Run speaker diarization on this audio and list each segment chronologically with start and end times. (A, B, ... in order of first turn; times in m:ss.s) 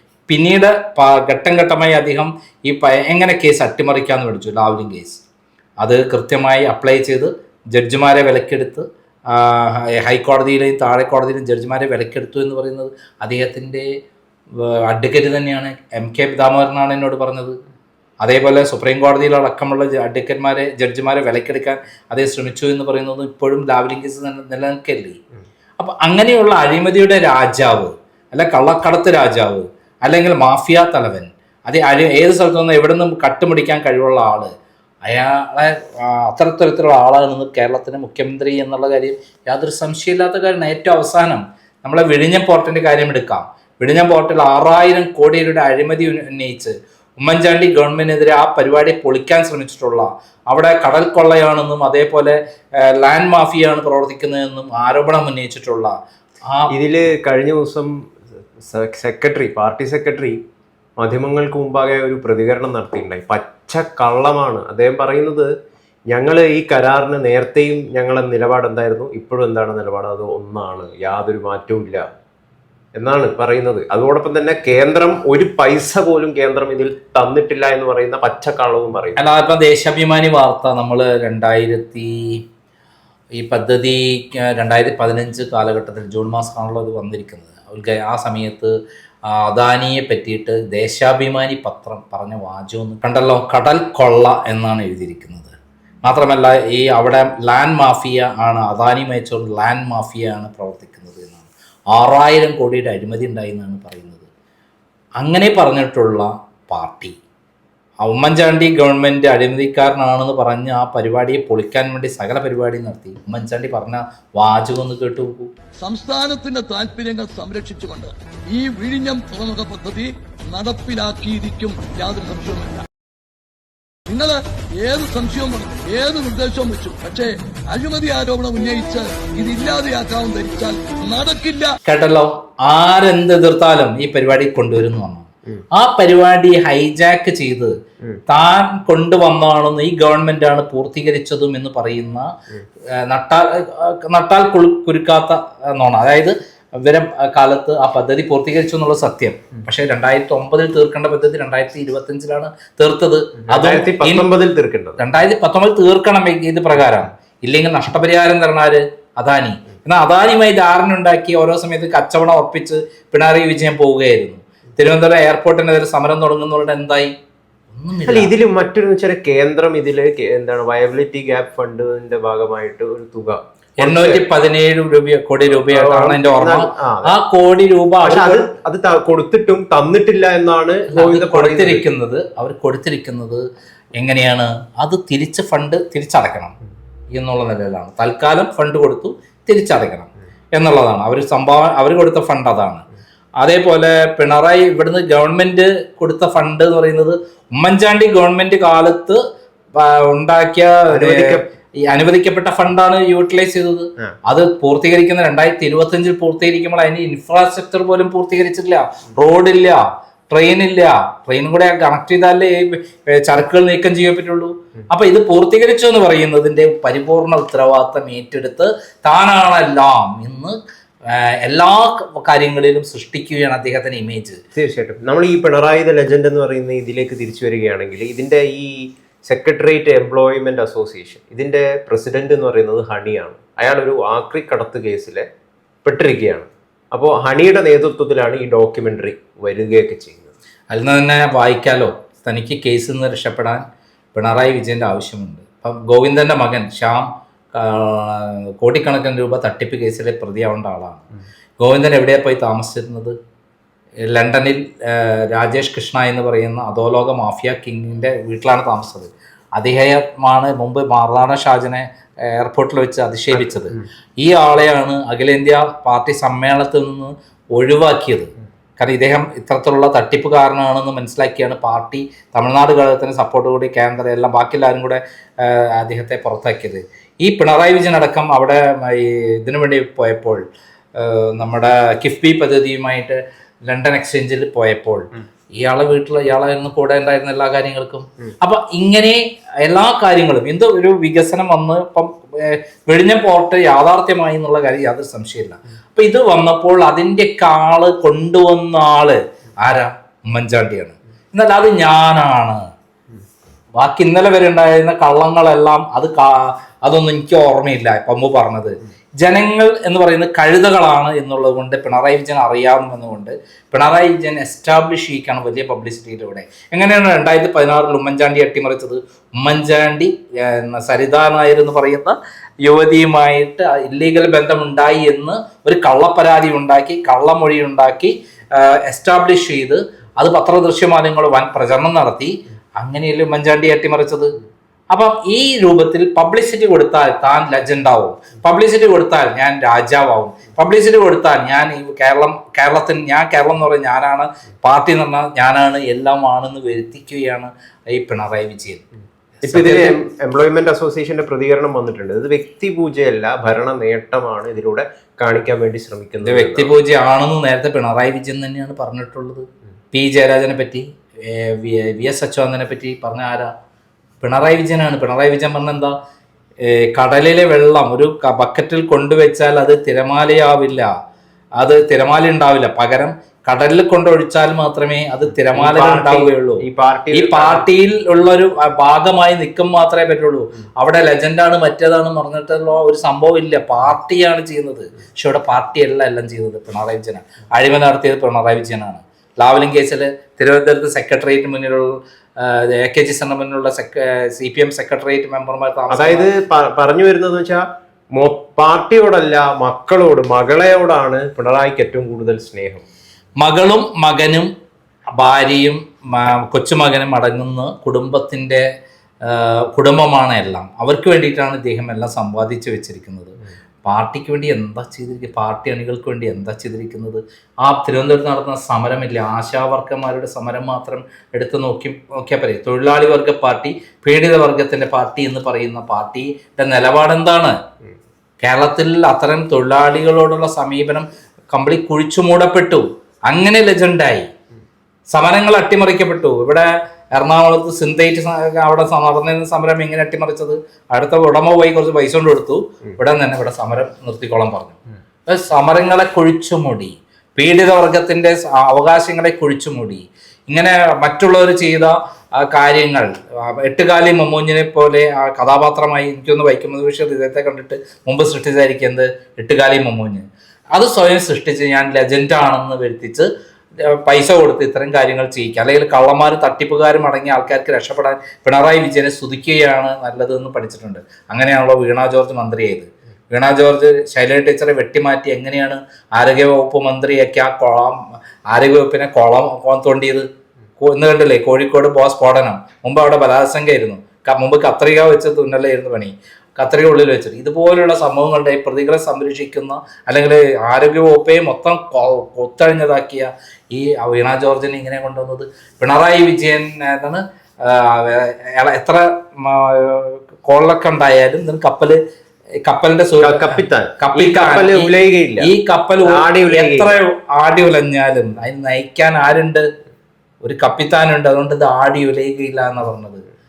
0:00.3-0:05.2 A
0:05.8-0:13.9 A
0:14.5-0:17.6 A
0:18.2-0:25.2 A
0:25.8-0:34.5 A
0:35.1-0:55.9 A
0:56.7-0:57.9 B
0:58.6-1:00.4 B
1:01.0-1:05.5 B
1:06.1-1:12.0 B
1:12.9-1:19.2 B
1:19.2-1:22.3 A
1:23.4-1:28.7 A
1:29.3-1:44.3 A
1:45.2-1:47.2 A
1:48.0-1:55.5 A
1:55.8-2:02.8 C
2:04.1-2:11.7 C
2:11.8-2:17.7 A
2:18.3-2:22.3 A
2:22.9-2:34.3 A
2:33.5-2:35.0 B
2:35.0-2:47.1 A
2:47.7-2:48.3 A
2:48.1-2:54.2 B
2:53.8-2:58.4 A
2:55.7-2:57.1 B
2:58.0-3:01.8 B
3:00.9-3:03.4 A
3:04.0-3:06.6 A
3:07.1-3:12.8 A
3:13.4-3:19.2 A
3:19.8-3:40.6 A
3:20.9-3:21.5 B
3:41.1-3:44.4 A
3:44.6-3:55.3 B
3:55.8-4:00.3 B
4:00.7-4:03.6 A
4:04.1-4:11.0 A
4:11.6-4:13.2 A
4:14.1-4:40.4 A
4:23.4-4:23.8 B
4:41.0-5:02.6 A
5:03.8-5:34.4 A
5:34.9-5:48.8 A
5:49.4-5:50.0 A
5:49.4-5:56.7 B
5:56.2-6:03.5 A
6:04.2-6:05.9 A
6:06.6-6:10.9 A
6:11.6-6:36.3 A
6:15.6-6:17.6 B
6:35.9-6:37.6 B
6:38.2-6:42.8 B
6:43.4-6:44.5 A
6:45.2-6:48.6 A
6:49.2-7:07.6 A
7:08.4-7:14.3 A
7:15.1-7:58.0 A
7:58.5-8:00.3 A
8:00.8-8:22.0 A
8:22.6-8:29.6 A
8:23.2-8:25.5 B
8:26.0-8:27.0 B
8:30.4-8:33.2 A